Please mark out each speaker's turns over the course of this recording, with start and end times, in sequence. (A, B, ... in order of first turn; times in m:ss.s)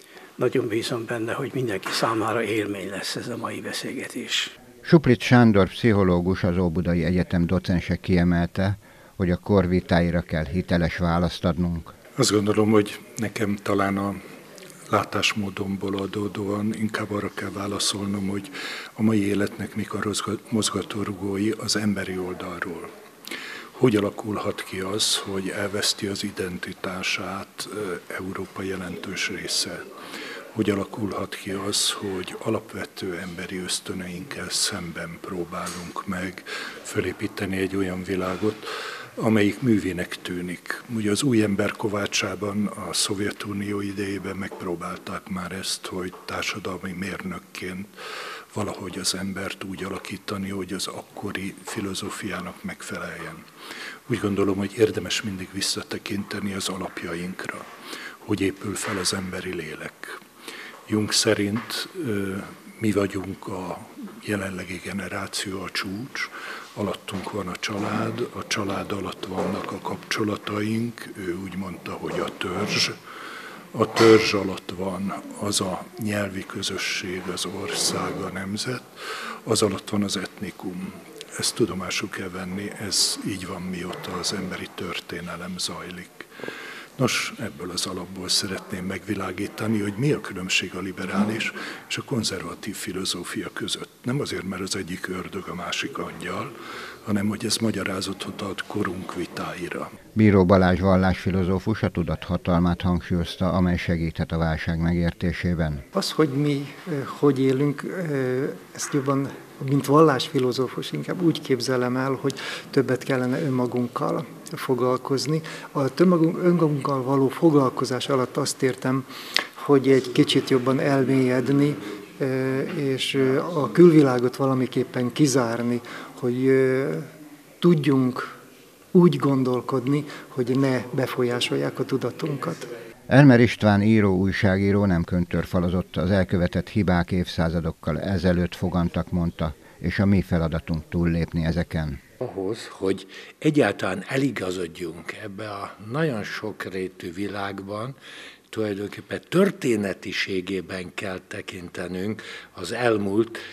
0:00.4-0:04.5 A
0:04.8-0:12.0 B
0:12.2-0:14.2 C
0:14.9-0:22.9 C
0:23.8-0:29.8 C
0:30.6-0:38.7 C
0:39.2-0:47.9 C
0:48.5-0:53.4 C
0:54.1-0:57.7 C
0:58.2-1:00.2 C
1:00.9-1:13.0 C
1:13.7-1:18.9 C
1:19.4-1:26.3 C
1:27.0-1:36.5 C
1:37.1-1:39.9 C
1:40.2-1:45.8 B
1:45.9-2:07.1 D
2:07.6-2:08.4 D
2:08.9-2:12.7 D
2:13.1-2:22.0 B
2:22.2-2:28.0 E
2:28.5-2:33.4 E